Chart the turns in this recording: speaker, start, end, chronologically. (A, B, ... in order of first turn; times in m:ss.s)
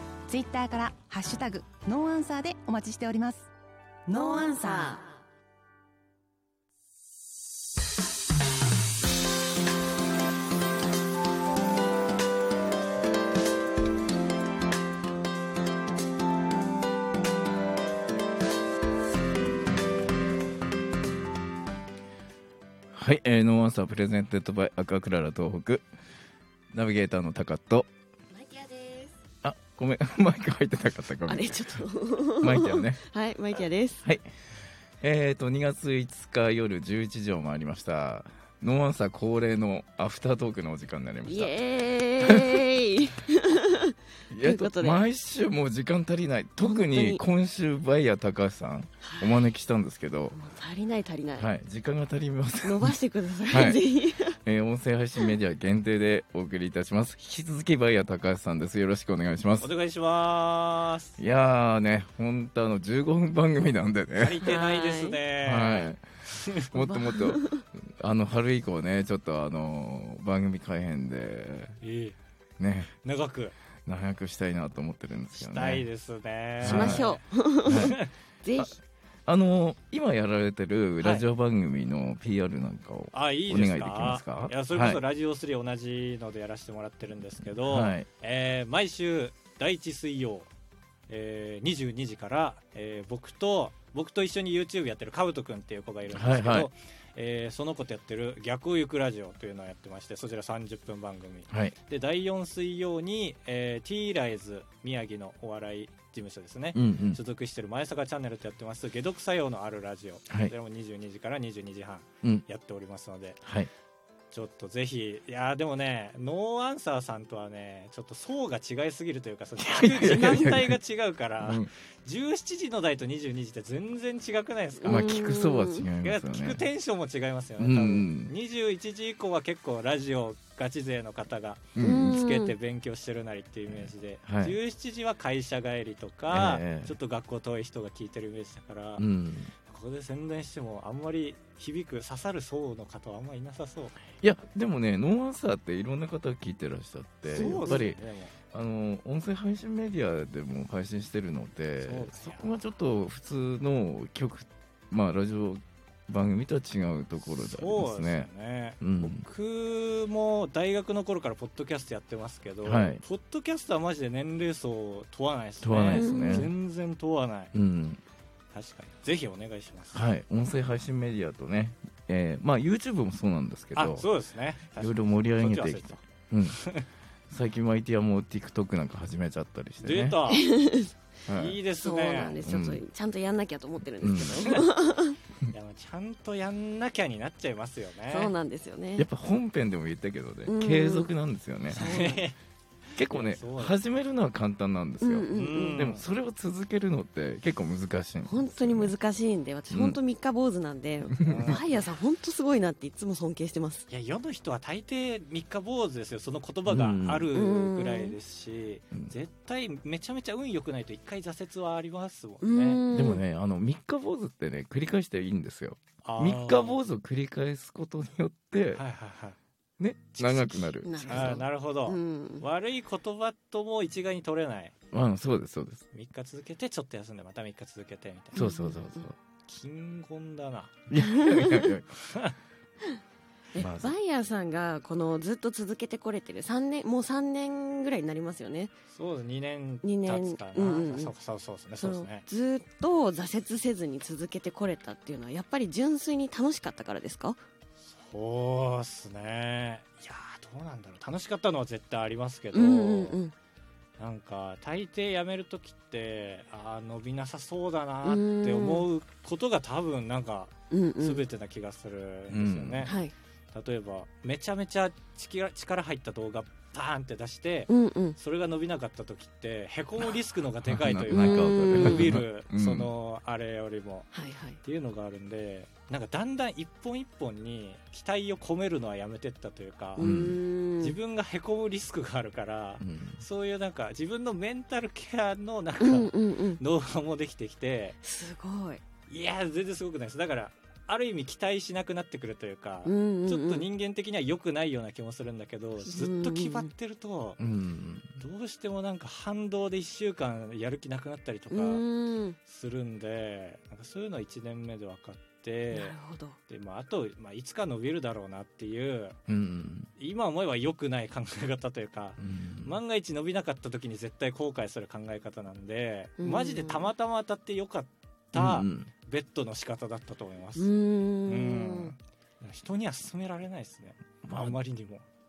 0:00.3-0:03.5 A
0:04.1-0:05.1 B
0:22.9-0:25.9 C
0:26.7-0:27.9 C
0:28.3-0:29.2 B
0:29.4-0:31.8 C
0:31.3-0:34.0 B
0:32.4-0:33.0 C
0:35.0-0:41.6 C
0:41.2-0:45.0 B
0:42.2-0:42.6 C
0:44.3-0:50.4 C
0:46.6-0:47.2 B
0:49.0-0:49.4 B
0:50.3-0:51.5 B
0:51.4-0:53.0 C
0:52.6-0:54.4 B
0:53.5-0:53.8 C
0:54.4-0:59.7 C
0:59.6-1:01.2 D
1:01.2-1:04.4 C
1:04.2-1:06.7 D
1:04.4-1:05.2 B
1:05.4-1:06.0 C
1:06.7-1:11.8 C
1:06.8-1:07.6 B
1:11.8-1:12.2 D
1:12.6-1:13.0 C
1:13.0-1:13.6 D
1:13.9-1:15.8 C
1:15.4-1:17.2 D
1:16.6-1:17.1 C
1:16.6-1:18.8 B
1:17.7-1:18.0 C
1:19.3-1:25.0 C
1:23.1-1:30.5 D
1:27.6-1:28.1 C
1:31.1-1:53.4 D
1:36.1-1:36.7 C
1:41.5-1:41.8 C
1:46.8-1:47.2 C
1:53.4-1:53.7 C
1:54.3-2:05.2 D
1:59.6-2:00.8 C
2:01.4-2:01.7 C
2:04.8-2:05.9 B
2:04.8-2:06.6 C
2:06.0-2:19.0 D
2:07.6-2:08.3 C
2:11.8-2:12.2 C
2:11.8-2:12.5 B
2:13.7-2:14.6 C
2:16.3-2:16.9 C
2:19.0-2:19.5 C
2:19.6-2:24.0 D
2:24.2-2:28.0 C
2:27.3-2:28.3 D
2:27.3-2:27.9 B
2:28.5-2:38.3 C
2:31.8-2:32.6 D
2:37.4-2:47.5 D
2:38.8-2:39.3 C
2:42.6-2:43.0 C
2:45.6-2:46.5 C
2:45.9-2:46.5 B
2:47.5-2:48.0 C
2:48.5-2:50.1 D
2:49.9-2:54.1 C
2:53.8-2:56.8 D
2:54.8-2:56.6 C
2:57.3-3:00.2 C
2:59.8-3:00.5 D
3:00.3-3:00.9 B
3:01.3-3:01.6 C
3:01.3-3:02.5 D
3:01.8-3:05.2 B
3:02.4-3:02.8 C
3:04.0-3:04.6 C
3:05.5-3:08.3 D
3:08.1-3:09.1 B
3:09.0-3:11.9 C
3:10.5-3:11.1 B
3:11.7-3:12.2 B
3:11.7-3:12.4 D
3:13.0-3:13.8 D
3:13.0-3:18.9 C
3:15.0-3:15.8 B
3:15.3-3:16.0 D
3:18.2-3:23.9 B
3:19.7-3:20.0 C
3:21.2-3:21.5 C
3:21.2-3:21.6 D
3:23.9-3:32.8 D
3:26.7-3:27.3 C
3:27.3-3:28.2 B
3:32.4-3:33.2 B
3:32.9-3:38.8 C
3:36.0-3:36.8 D
3:38.8-3:39.4 D
3:39.8-3:41.4 C
3:40.2-3:44.7 D
3:40.8-3:42.5 B
3:44.9-3:45.9 C
3:45.9-3:48.5 D
3:48.3-3:49.2 C
3:48.4-3:49.0 B
3:49.4-3:50.8 D
3:50.9-3:51.9 C
3:51.1-3:51.6 B
3:53.6-3:58.7 B
3:53.6-3:53.9 C
3:58.9-4:02.2 D
3:59.8-4:01.1 B
4:01.8-4:07.4 B
4:07.8-4:13.2 D
4:12.5-4:13.4 B
4:14.0-4:23.0 D
4:18.0-4:18.9 B
4:20.7-4:21.3 B
4:22.3-4:22.9 C
4:22.8-4:23.1 B
4:23.5-4:34.1 D
4:27.7-4:28.2 B
4:30.6-4:32.9 C
4:31.1-4:32.2 B
4:34.1-4:34.6 B
4:34.6-4:40.1 D
4:40.0-4:41.0 B
4:40.0-4:40.4 C
4:40.8-4:48.0 D
4:42.8-4:43.2 C
4:45.8-4:46.6 B
4:48.0-4:48.8 B
4:49.1-4:57.4 D
4:52.8-4:53.6 B
4:55.8-4:56.7 B
4:57.4-4:58.1 C
4:58.2-5:01.8 D
5:01.5-5:02.4 B
5:02.4-5:06.0 D
5:05.7-5:06.4 B
5:06.5-5:09.2 D
5:09.3-5:09.9 C
5:10.0-5:20.7 D
5:12.2-5:12.8 C
5:16.2-5:16.9 B
5:18.3-5:18.9 C
5:20.6-5:21.9 B
5:21.3-5:25.0 D
5:24.2-5:24.6 C